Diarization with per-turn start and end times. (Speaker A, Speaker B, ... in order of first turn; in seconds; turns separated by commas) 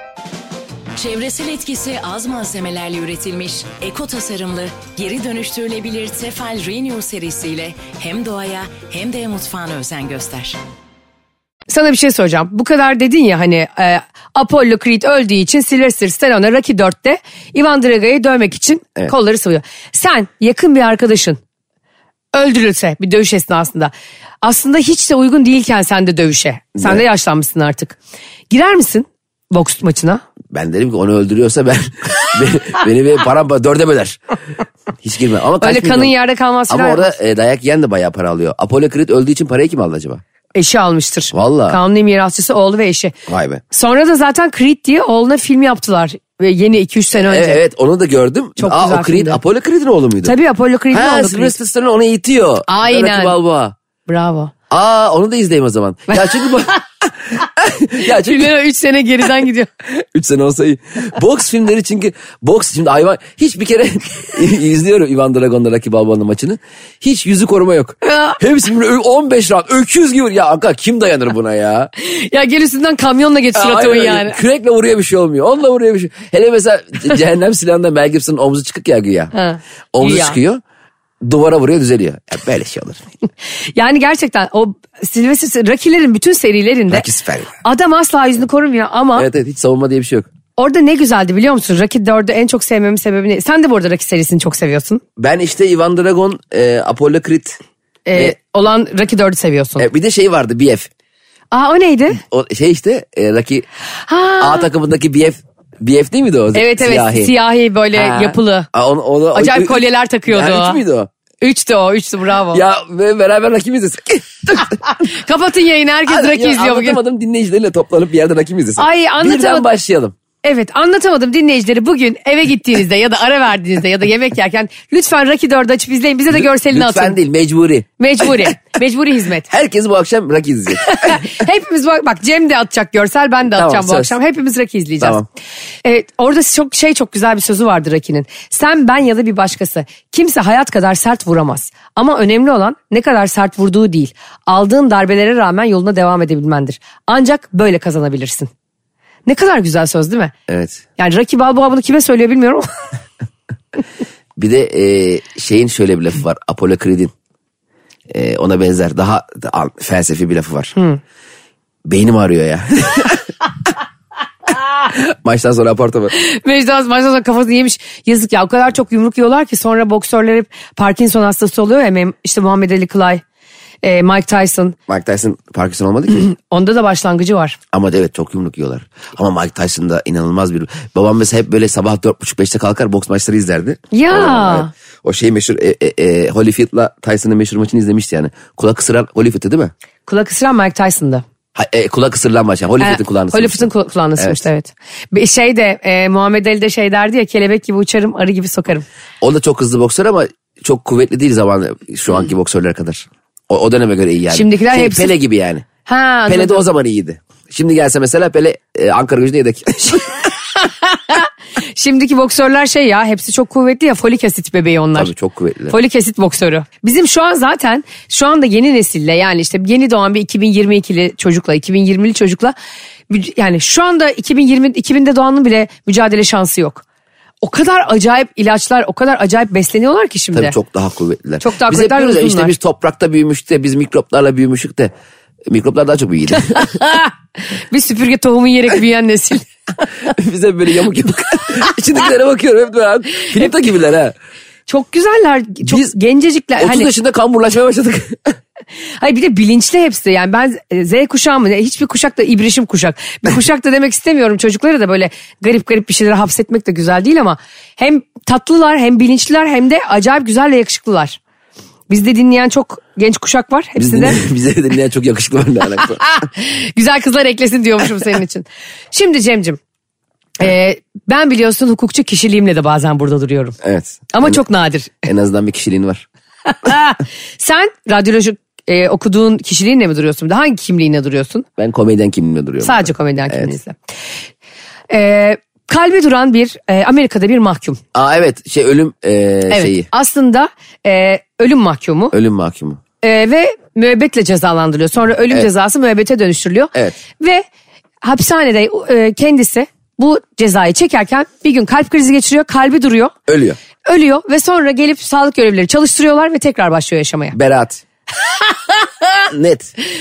Speaker A: 1.0-10.6, Speaker B: 11.7-21.4, Speaker B: 22.3-28.0, Speaker C: 26.8-27.0, Speaker B: 28.5-30.2, Speaker C: 30.5-34.2, Speaker C: 35.0-36.1, Speaker B: 35.6-37.1, Speaker C: 36.7-40.2, Speaker B: 40.5-43.1, Speaker C: 41.3-41.8, Speaker C: 43.3-43.6, Speaker B: 43.7-47.6, Speaker C: 47.3-50.3, Speaker B: 48.6-49.4, Speaker B: 50.2-51.5, Speaker C: 50.9-53.8, Speaker B: 52.7-53.4, Speaker B: 54.1-54.5, Speaker C: 54.7-58.5, Speaker B: 56.1-56.6, Speaker B: 58.0-59.7, Speaker C: 59.9-71.9, Speaker B: 68.0-68.4, Speaker B: 72.0-74.4, Speaker C: 73.5-79.3, Speaker B: 79.3-80.4, Speaker C: 79.9-80.6, Speaker C: 81.2-83.0, Speaker B: 83.8-87.0, Speaker C: 86.9-87.5, Speaker B: 87.6-89.3, Speaker C: 89.2-90.3, Speaker B: 90.6-95.0, Speaker C: 95.2-97.6, Speaker B: 98.1-99.9, Speaker C: 99.8-100.9, Speaker B: 101.5-102.2, Speaker C: 102.2-103.7, Speaker B: 104.1-104.7, Speaker C: 104.4-107.3, Speaker B: 106.5-108.7, Speaker C: 107.9-111.1, Speaker B: 109.3-110.8, Speaker B: 111.4-112.6, Speaker C: 112.5-114.8, Speaker B: 114.7-117.0, Speaker C: 116.1-120.2, Speaker B: 118.8-119.7, Speaker B: 120.4-127.2, Speaker C: 126.3-128.5, Speaker B: 128.0-129.5, Speaker C: 129.5-131.2, Speaker B: 130.8-135.2, Speaker C: 133.5-134.2, Speaker C: 135.0-135.3, Speaker B: 135.8-148.5, Speaker B: 149.3-150.3, Speaker C: 150.5-150.8, Speaker B: 151.0-152.7, Speaker C: 154.4-157.1, Speaker C: 158.1-160.7, Speaker B: 160.8-161.0, Speaker C: 161.9-163.3, Speaker C: 164.9-166.1, Speaker B: 166.1-173.2, Speaker B: 173.8-174.8, Speaker C: 174.9-176.3, Speaker B: 176.2-177.6, Speaker C: 177.7-189.7, Speaker B: 183.9-184.7, Speaker B: 190.1-191.2, Speaker C: 191.6-194.4, Speaker B: 192.8-198.8, Speaker C: 199.2-205.7, Speaker B: 204.3-205.1, Speaker B: 205.8-206.7, Speaker C: 206.3-210.1, Speaker B: 210.6-215.1, Speaker C: 214.9-215.8, Speaker B: 215.7-222.6, Speaker B: 223.1-226.8, Speaker B: 227.4-230.6, Speaker C: 230.3-234.9, Speaker B: 231.4-232.5, Speaker C: 235.5-236.7, Speaker B: 236.4-239.5, Speaker C: 240.1-244.2, Speaker B: 244.7-246.9, Speaker C: 245.6-245.9, Speaker C: 246.6-248.4, Speaker B: 249.0-261.2, Speaker B: 261.9-264.2, Speaker C: 263.8-266.0, Speaker B: 266.0-269.6, Speaker B: 270.4-273.6, Speaker C: 273.6-274.4, Speaker B: 274.1-275.0, Speaker C: 275.0-276.1, Speaker B: 276.5-281.5, Speaker C: 281.6-283.6, Speaker B: 282.6-283.8, Speaker B: 284.9-287.8, Speaker C: 287.9-289.9, Speaker B: 289.5-292.1, Speaker C: 292.1-292.8, Speaker B: 293.0-297.4, Speaker B: 298.0-303.1, Speaker C: 303.3-303.6, Speaker B: 303.9-307.4, Speaker C: 307.3-307.8, Speaker B: 308.2-309.2, Speaker C: 309.3-309.7